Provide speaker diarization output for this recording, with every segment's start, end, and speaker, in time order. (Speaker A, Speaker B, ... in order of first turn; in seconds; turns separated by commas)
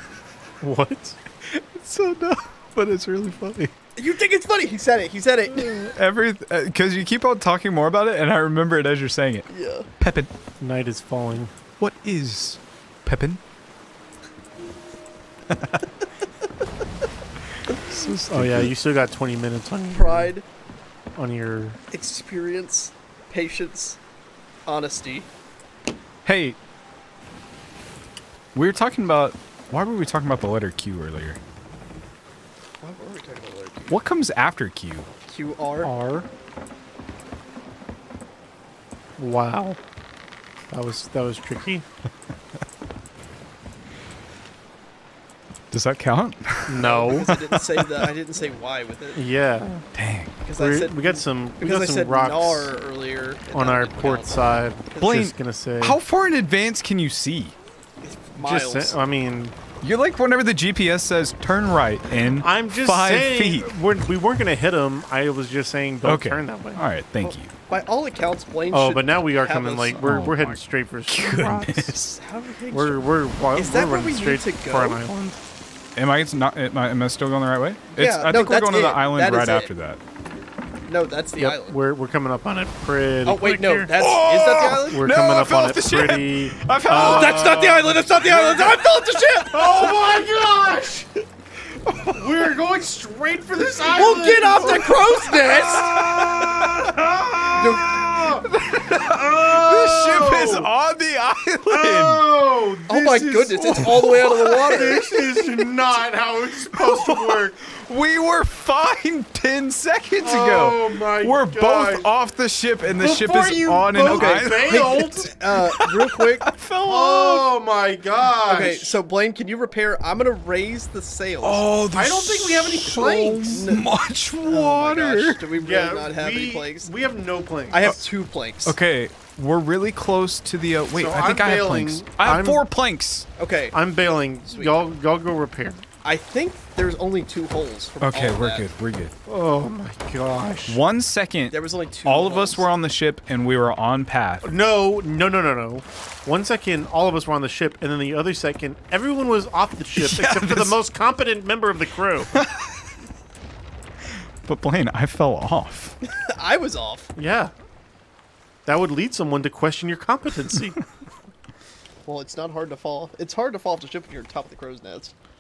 Speaker A: 0.6-1.2, Speaker B: 1.4-3.7, Speaker C: 4.0-5.9, Speaker B: 5.7-9.5, Speaker C: 9.5-9.9, Speaker B: 10.0-10.3, Speaker A: 10.6-11.5, Speaker B: 11.8-13.4, Speaker B: 15.5-15.8, Speaker B: 17.8-18.7, Speaker A: 18.3-20.3, Speaker C: 19.9-20.4, Speaker A: 21.2-21.8, Speaker C: 21.9-24.0, Speaker C: 24.7-25.3, Speaker B: 26.2-26.6, Speaker B: 28.6-31.4, Speaker C: 32.8-34.0, Speaker B: 33.9-35.1, Speaker C: 35.3-35.9, Speaker A: 35.8-36.3, Speaker A: 39.2-39.8, Speaker A: 40.7-41.9, Speaker B: 45.7-47.8, Speaker A: 46.7-47.3, Speaker C: 46.8-49.2, Speaker A: 49.1-49.9, Speaker B: 49.9-50.4, Speaker C: 50.4-55.2, Speaker A: 50.6-52.7, Speaker A: 53.5-56.0, Speaker B: 55.0-57.6, Speaker C: 58.0-59.0, Speaker A: 58.4-59.5, Speaker B: 59.8-63.7, Speaker A: 62.4-66.8, Speaker B: 66.0-67.5, Speaker C: 67.7-70.4, Speaker A: 68.7-72.0, Speaker B: 70.0-72.2, Speaker C: 72.1-75.0, Speaker A: 72.7-75.4, Speaker B: 76.0-80.0, Speaker C: 77.9-79.7, Speaker C: 80.9-81.8, Speaker A: 81.4-83.9, Speaker C: 83.2-85.0, Speaker B: 84.0-88.9, Speaker A: 84.6-87.7, Speaker C: 86.9-90.0, Speaker A: 89.5-91.1, Speaker B: 91.9-92.2, Speaker A: 92.1-95.0, Speaker C: 93.9-96.3, Speaker B: 95.3-102.2, Speaker A: 96.1-100.7, Speaker C: 97.6-98.0, Speaker A: 101.7-107.5, Speaker C: 102.9-105.2, Speaker B: 103.6-105.7, Speaker B: 106.7-117.5, Speaker A: 110.2-112.1, Speaker A: 112.9-115.2, Speaker C: 114.0-116.5, Speaker A: 116.8-118.9, Speaker C: 118.5-121.7, Speaker B: 121.4-125.4, Speaker A: 121.9-123.7, Speaker C: 122.9-123.9, Speaker C: 124.5-126.9, Speaker A: 125.6-128.0, Speaker C: 127.7-128.8, Speaker B: 128.6-133.3, Speaker A: 130.9-132.6, Speaker C: 133.4-133.8, Speaker A: 133.7-135.8, Speaker C: 134.5-134.8, Speaker C: 136.0-138.7, Speaker B: 138.0-139.1, Speaker A: 139.3-140.8, Speaker B: 140.7-144.5, Speaker C: 141.5-142.7, Speaker A: 144.4-152.3, Speaker B: 150.0-150.7, Speaker B: 152.3-152.8, Speaker B: 154.4-156.0, Speaker C: 156.1-157.1, Speaker A: 157.2-157.5, Speaker A: 158.7-160.8, Speaker C: 162.1-165.1